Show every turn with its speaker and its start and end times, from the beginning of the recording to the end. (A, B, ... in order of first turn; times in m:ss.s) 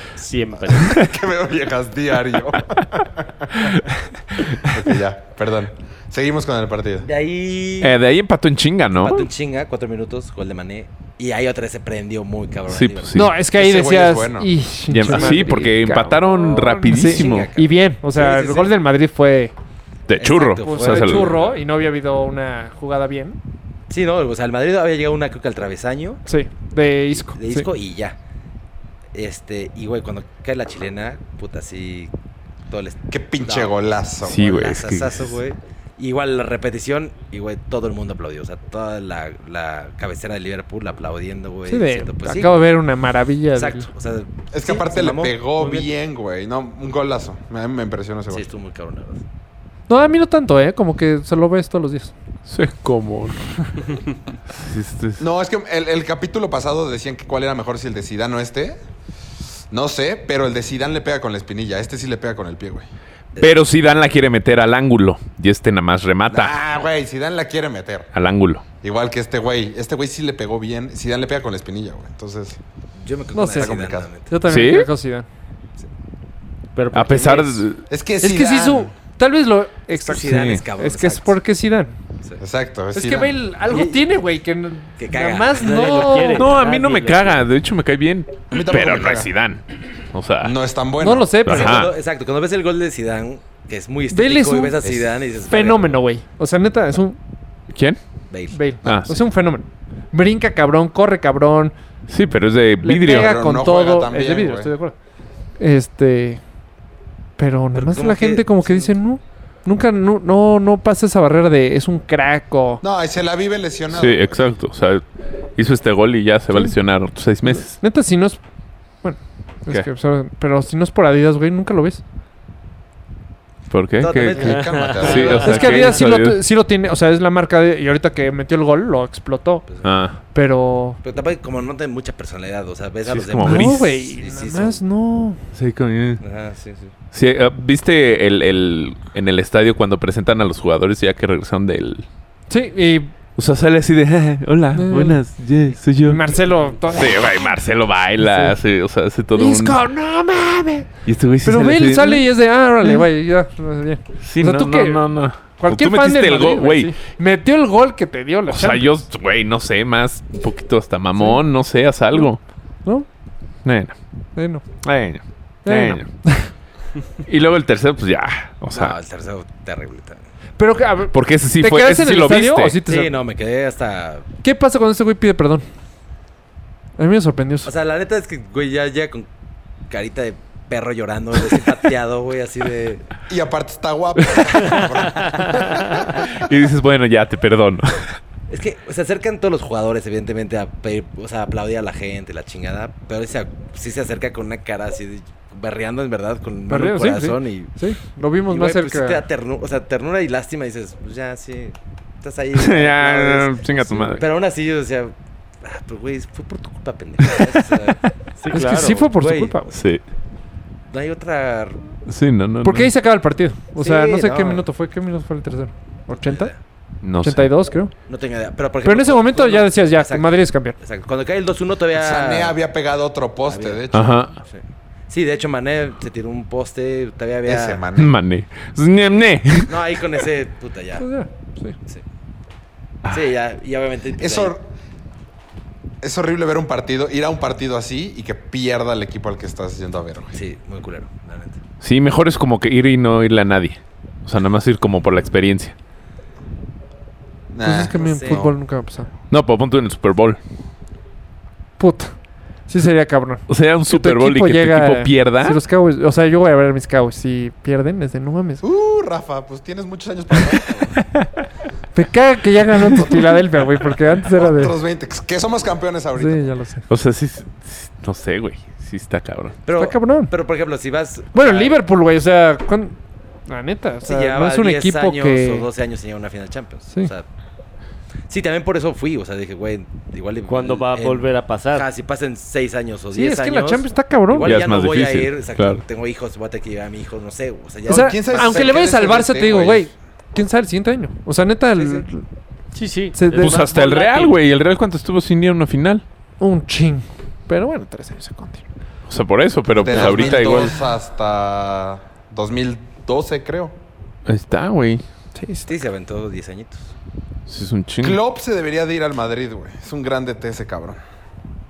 0:00.2-0:01.0 A
0:00.7-0:03.8 B
0:03.6-0:04.7 C
0:04.6-0:07.1 B
0:07.0-0:08.0 D
0:07.8-0:09.3 C
0:08.9-0:13.2 D
0:12.7-0:13.4 C
0:13.1-0:19.5 E
0:13.5-0:14.5 B
0:14.9-0:17.5 C
0:15.1-0:15.8 D
0:16.3-0:18.7 D
0:20.1-0:21.4 C
0:20.2-0:21.6 D
0:20.6-0:23.4 E
0:23.9-0:26.2 D
0:26.3-0:27.7 E
0:27.1-0:28.2 D
0:29.1-0:32.1 D
0:32.7-0:33.7 D
0:33.1-0:34.6 B
0:34.2-0:35.3 C
0:34.4-0:42.6 D
0:41.7-0:43.9 E
0:43.5-0:45.8 D
0:44.5-0:48.5 B
0:48.3-0:49.2 D
0:49.9-0:52.1 E
0:52.5-0:53.6 C
0:54.5-0:55.2 C
0:55.2-0:58.8 B
0:59.7-1:02.9 B
1:03.3-1:03.6 D
1:03.4-1:06.6 C
1:06.3-1:08.1 B
1:08.1-1:08.6 C
1:08.8-1:12.6 B
1:13.0-1:14.3 D
1:13.4-1:13.7 E
1:13.5-1:14.1 B
1:14.3-1:15.3 E
1:14.4-1:14.9 C
1:16.8-1:17.6 A
1:16.9-1:17.8 C
1:17.9-1:18.9 B
1:18.2-1:22.0 E
1:19.9-1:21.4 D
1:20.2-1:20.6 C
1:22.4-1:23.4 B
1:22.9-1:26.5 E
1:23.7-1:24.0 D
1:25.0-1:26.2 D
1:25.6-1:27.4 A
1:26.3-1:30.6 C
1:28.5-1:29.3 B
1:30.4-1:31.4 B
1:31.0-1:31.8 E
1:31.4-1:31.9 C
1:31.5-1:36.0 D
1:34.1-1:37.2 E
1:37.7-1:38.0 C
1:38.3-1:38.6 D
1:38.5-1:41.7 E
1:38.8-1:39.1 C
1:42.1-1:43.3 C
1:42.8-1:45.0 E
1:43.1-1:44.7 B
1:45.6-1:46.4 E
1:47.4-1:52.8 E
1:47.7-1:49.0 D
1:52.8-1:54.4 B
1:53.9-1:57.8 C
1:57.5-1:58.4 E
1:59.0-2:02.0 E
2:03.7-2:06.4 C
2:04.0-2:05.8 D
2:04.4-2:05.5 B
2:04.5-2:06.0 A
2:05.4-2:09.7 E
2:09.7-2:10.0 D
2:09.8-2:10.2 C
2:10.2-2:11.0 E
2:11.0-2:14.8 D
2:13.1-2:14.0 C
2:13.4-2:15.4 E
2:15.6-2:16.2 C
2:16.2-2:16.9 D
2:17.1-2:22.1 C
2:22.5-2:23.1 E
2:23.4-2:26.3 C
2:24.8-2:25.2 E
2:26.0-2:27.6 E
2:26.9-2:29.8 C
2:28.2-2:28.6 E
2:29.4-2:30.9 E
2:31.0-2:32.3 C
2:31.4-2:38.9 E
2:34.2-2:37.0 C
2:38.5-2:42.4 C
2:43.6-2:44.0 C
2:44.4-2:44.7 E
2:44.8-2:46.1 C
2:45.7-2:46.5 E
2:47.3-2:49.0 C
2:48.7-2:50.2 D
2:50.6-2:53.2 E
2:51.1-2:52.8 C
2:52.9-2:54.3 D
2:54.4-2:55.7 E
2:57.0-2:57.7 E
2:57.6-2:59.3 D
2:59.9-3:03.0 D
3:03.3-3:06.3 B
3:06.1-3:08.2 C
3:08.5-3:17.8 D
3:16.7-3:19.2 E
3:18.5-3:28.0 D
3:22.6-3:24.2 C
3:28.4-3:29.1 A
3:28.5-3:29.8 E
3:28.8-3:29.6 D
3:29.7-3:30.0 C
3:30.9-3:31.8 D
3:32.1-3:32.9 C
3:32.6-3:36.5 E
3:33.8-3:34.7 D
3:36.1-3:36.6 D
3:37.0-3:37.5 C
3:37.2-3:37.9 E
3:38.1-3:42.6 D
3:38.8-3:40.8 E
3:41.9-3:44.2 B
3:43.5-3:43.8 D
3:43.9-3:44.4 C
3:44.4-3:47.8 D
3:47.5-3:48.2 B
3:48.0-3:49.8 C
3:49.7-3:51.1 D
3:51.0-3:51.8 E
3:53.1-3:54.6 D
3:54.2-3:54.7 B
3:56.0-4:00.4 B
4:00.3-4:01.6 D
4:01.8-4:05.8 C
4:07.5-4:08.5 B
4:07.6-4:09.1 E
4:07.8-4:08.5 D
4:09.3-4:10.4 C
4:11.8-4:12.2 E
4:12.7-4:18.6 E
4:13.5-4:15.6 C
4:18.6-4:21.0 B
4:21.9-4:24.8 E
4:22.9-4:26.6 B
4:26.2-4:26.9 E
4:26.9-4:29.6 C
4:29.6-4:31.8 D
4:29.7-4:30.3 E
4:31.3-4:35.7 E
4:34.0-4:37.3 D
4:38.3-4:49.0 D
4:40.5-4:41.9 A
4:43.1-4:44.6 E
4:44.4-4:45.8 C
4:47.9-4:49.9 B
4:47.9-4:52.2 E
4:51.8-4:52.0 D
4:52.7-4:54.4 A
4:53.2-4:53.7 E
4:53.4-4:56.0 C
4:56.4-4:58.6 E
4:59.1-5:00.7 C
4:59.7-5:03.7 B
4:59.9-5:00.6 D
5:04.3-5:05.0 C
5:05.4-5:05.7 E
5:05.7-5:06.9 D
5:07.5-5:08.2 C
5:08.0-5:11.0 B